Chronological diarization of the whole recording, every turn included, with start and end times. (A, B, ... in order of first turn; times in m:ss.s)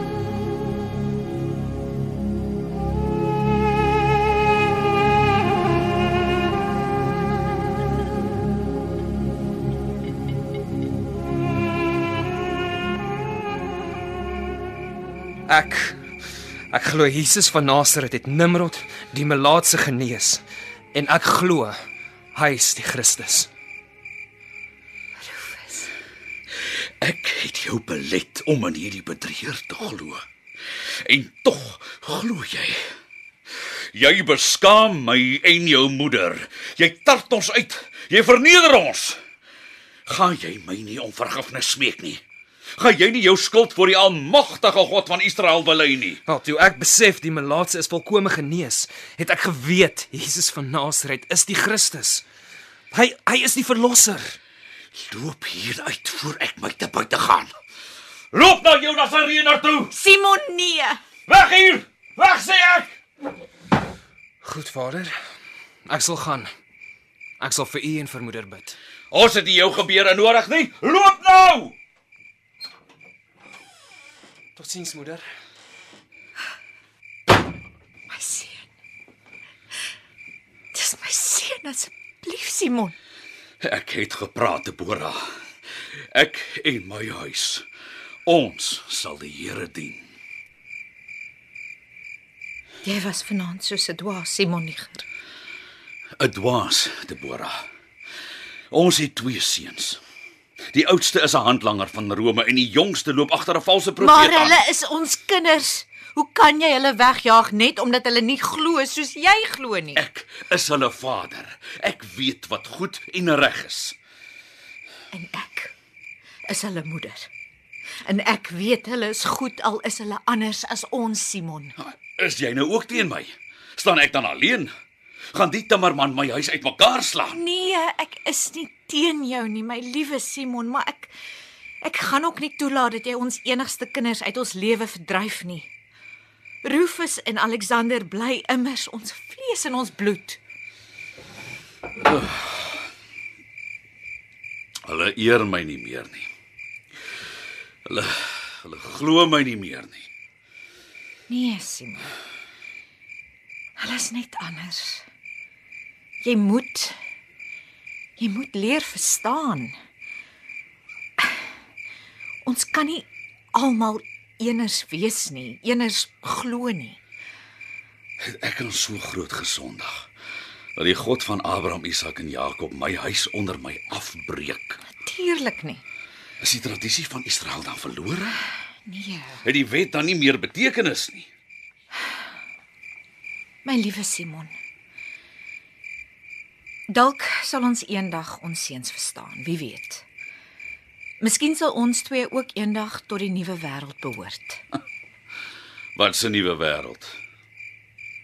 0:15.5-0:16.0 A
0:16.7-0:21.8 A
0:22.3-0:23.5 A
0:25.2-0:25.9 B
0:27.0-0:30.2 C
0:31.1-0:32.8 C
0:33.9-0:39.2 C
0:40.1-0:42.2 C
0:42.8-0:46.2 C
0:46.3-0:52.2 A
0:52.9-0:54.4 A
0:55.0-0:57.5 C
0:58.3-0:59.9 C
0:59.9-1:01.0 B
1:01.3-1:02.9 C
1:04.4-1:05.1 A
1:05.9-1:06.5 A
1:07.4-1:08.8 A
1:09.1-1:11.8 C
1:14.6-1:15.2 A
1:18.1-1:18.6 B
1:20.7-1:22.9 B
1:23.6-1:25.2 C
1:26.1-1:27.6 C
1:28.3-1:30.0 C
1:32.8-1:35.0 B
1:36.2-1:37.6 C
1:38.7-1:40.0 C
1:40.7-1:44.6 C
1:44.0-1:50.0 B
1:50.0-1:54.0 C
1:55.1-1:55.7 B
1:56.5-1:57.3 B
1:58.0-2:01.7 B
2:01.8-2:04.7 C
2:05.3-2:07.4 C
2:07.3-2:11.1 B
2:11.8-2:15.7 B
2:16.6-2:20.4 B
2:24.9-2:26.3 C
2:27.9-2:30.1 C
2:31.3-2:32.1 B
2:33.8-2:35.0 B
2:36.2-2:37.0 B
2:38.2-2:39.8 B
2:42.4-2:47.0 B
2:48.2-2:50.0 C
2:50.8-2:54.8 C
2:54.9-2:55.8 B
2:56.4-2:58.4 C
2:58.9-2:59.4 B
2:59.4-3:01.3 C
3:03.6-3:04.5 B
3:06.9-3:10.0 B
3:11.2-3:14.6 B
3:16.0-3:17.1 C